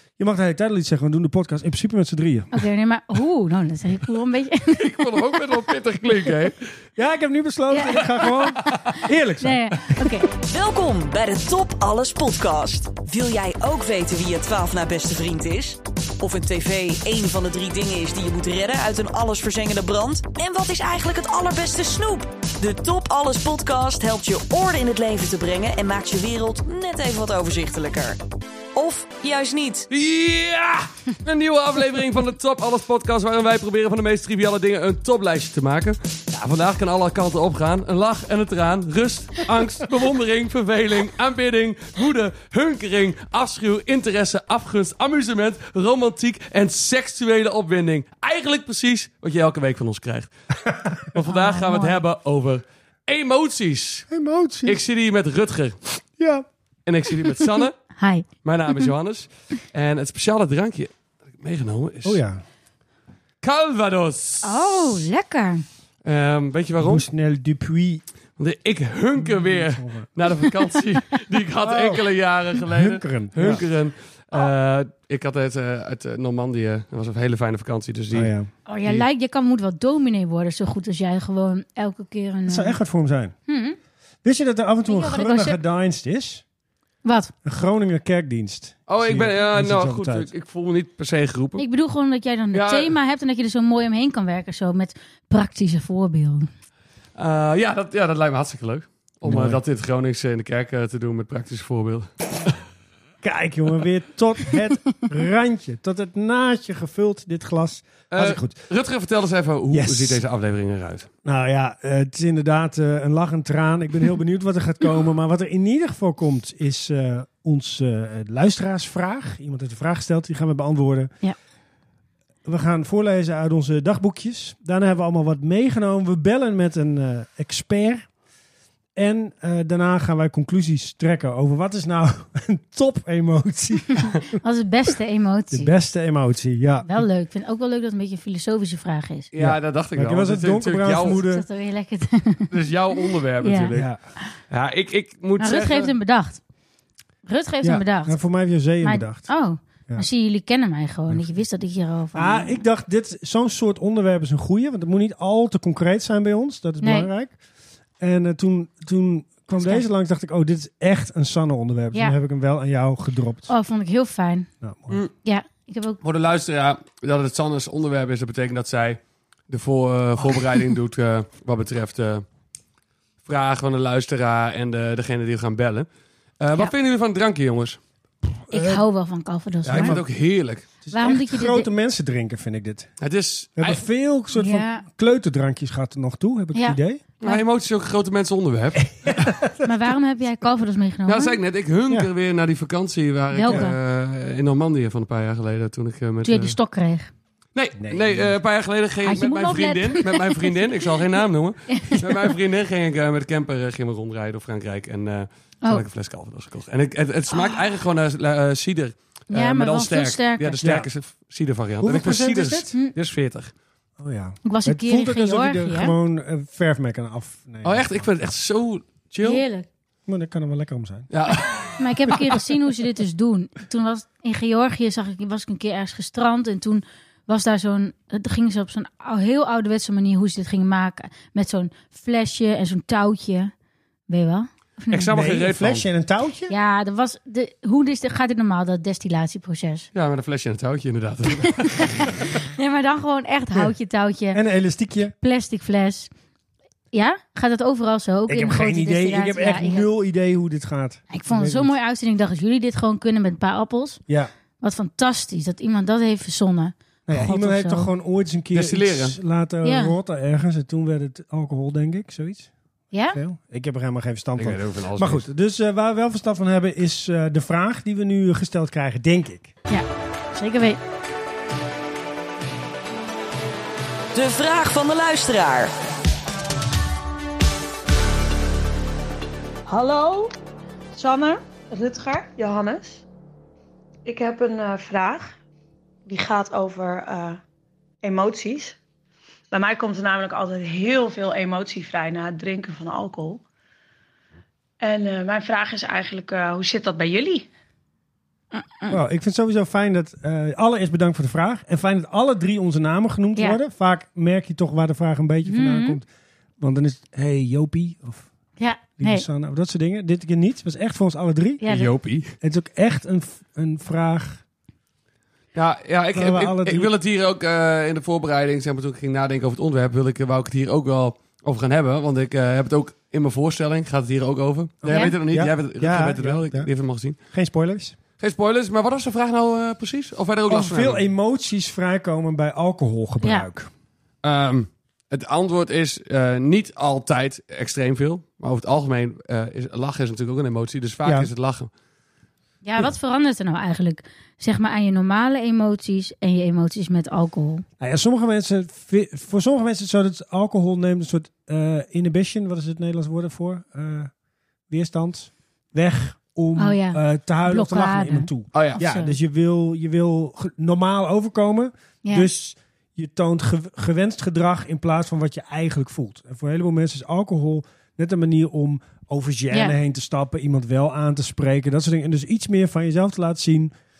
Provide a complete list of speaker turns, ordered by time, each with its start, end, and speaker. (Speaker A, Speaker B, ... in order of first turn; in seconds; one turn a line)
Speaker A: 0.2-2.5
Speaker B: 2.5-5.1
Speaker C: 4.7-6.7
Speaker A: 7.0-10.1
Speaker B: 7.7-8.4
Speaker C: 8.3-9.0
Speaker B: 9.4-10.3
Speaker D: 10.3-28.2
Speaker D: 28.7-29.9
Speaker C: 29.9-50.3
Speaker C: 51.0-54.1
Speaker B: 51.2-52.0
Speaker A: 54.1-54.8
Speaker C: 54.6-55.8
Speaker A: 56.2-56.5
Speaker C: 56.9-57.8
Speaker B: 58.0-58.2
Speaker C: 58.4-62.2
Speaker A: 62.0-62.4
Speaker C: 63.4-65.1
Speaker B: 64.4-65.6
Speaker C: 66.0-67.0
Speaker A: 66.8-68.0
Speaker C: 68.4-78.3
Speaker A: 69.2-70.1
Speaker A: 71.6-72.0
Speaker A: 72.7-73.6
Speaker A: 78.1-78.5
Speaker B: 78.7-82.8
Speaker A: 82.5-83.3
Speaker B: 83.5-83.8
Speaker A: 84.2-86.4
Speaker B: 84.8-85.6
Speaker B: 87.0-87.3
Speaker A: 87.4-90.3
Speaker C: 88.9-91.6
Speaker B: 91.6-96.5
Speaker C: 92.5-92.9
Speaker C: 97.2-102.5
Speaker A: 99.2-99.6
Speaker A: 103.2-108.5
Speaker C: 108.1-111.1
Speaker A: 109.7-110.2
Speaker A: 111.2-121.1
Speaker A: 122.4-128.1
Speaker A: 128.9-134.2
Speaker B: 134.4-135.7
Speaker A: 135.5-137.1
Speaker B: 136.8-139.3
Speaker C: 139.3-141.2
Speaker A: 139.4-141.4
Speaker B: 141.1-142.5
Speaker C: 142.5-143.9
Speaker B: 143.4-143.7
Speaker A: 143.7-144.0
Speaker C: 144.5-145.9
Speaker B: 145.4-146.4
Speaker B: 147.2-148.2
Speaker A: 147.6-149.3
Speaker B: 148.8-152.6
Speaker A: 151.1-151.4
Speaker A: 152.1-157.4
Speaker B: 156.8-157.1
Speaker A: 158.0-163.5
Speaker B: 159.6-159.8
Speaker B: 163.5-164.5
Speaker A: 164.6-165.0
Speaker B: 165.2-166.0
Speaker C: 166.0-172.2
Speaker C: 173.2-175.9
Speaker C: 176.4-177.8
Speaker A: 178.5-178.8
Speaker B: 178.5-180.0
Speaker A: 179.7-180.1
Speaker C: 179.7-180.7
Speaker A: 180.8-182.9
Speaker B: 180.9-181.7
Speaker C: 183.0-183.8
Speaker A: 183.6-187.0
Speaker B: 184.3-184.8
Speaker B: 186.5-187.4
Speaker C: 187.2-188.9
Speaker A: 189.0-189.7
Speaker B: 189.6-191.4
Speaker C: 191.1-196.6
Speaker B: 193.3-193.8
Speaker B: 196.2-197.1
Speaker C: 197.5-213.5
Speaker A: 197.8-198.3
Speaker B: 199.0-200.9
Speaker B: 201.7-202.3
Speaker B: 207.3-207.6
Speaker B: 209.3-210.7
Speaker A: 210.6-210.9
Speaker A: 211.8-212.7
Speaker A: 214.0-218.1
Speaker B: 214.4-215.9
Speaker C: 217.6-219.4
Speaker B: 219.2-219.7
Speaker A: 220.1-221.1
Speaker C: 221.1-222.4
Speaker B: 221.8-233.5
Speaker B: 234.1-235.1
Speaker C: 234.9-235.8
Speaker A: 235.1-236.5
Speaker B: 236.5-239.9
Speaker C: 239.9-241.9
Speaker B: 241.4-244.4
Speaker A: 244.3-245.1
Speaker B: 245.2-246.1
Speaker B: 246.9-249.9
Speaker A: 248.3-251.7
Speaker B: 251.1-254.0
Speaker B: 254.6-257.9
Speaker A: 257.1-262.5
Speaker C: 258.5-259.1
Speaker B: 259.6-259.9
Speaker B: 262.9-263.2
Speaker A: 263.1-269.5
Speaker C: 264.4-265.2
Speaker B: 269.7-270.8
Speaker D: 274.1-275.7
Speaker E: 279.6-280.3
Speaker E: 280.9-283.0
Speaker E: 284.0-285.4
Speaker E: 286.1-287.4
Speaker E: 288.0-288.8
Speaker E: 289.5-293.4
Speaker E: 294.8-297.5
Speaker B: 298.6-299.0
Speaker A: 298.9-306.1
Speaker B: 305.4-306.0
Speaker A: 306.6-308.3
Speaker B: 308.6-309.2
Speaker A: 309.0-311.6
Speaker B: 311.6-311.9
Speaker C: 311.6-312.3
Speaker A: 312.4-314.4
Speaker C: 315.5-327.2
Speaker A: 316.1-316.9
Speaker A: 324.8-326.7
Speaker B: 324.9-325.1
Speaker A: 327.3-327.9
Speaker C: 328.2-331.0
Speaker A: 330.5-333.7
Speaker B: 333.2-333.5
Speaker C: 334.2-341.7
Speaker A: 341.0-341.3
Speaker B: 342.6-347.6
Speaker A: 347.8-354.1
Speaker A: 354.7-373.7
Speaker B: 356.6-359.1
Speaker C: 358.5-358.8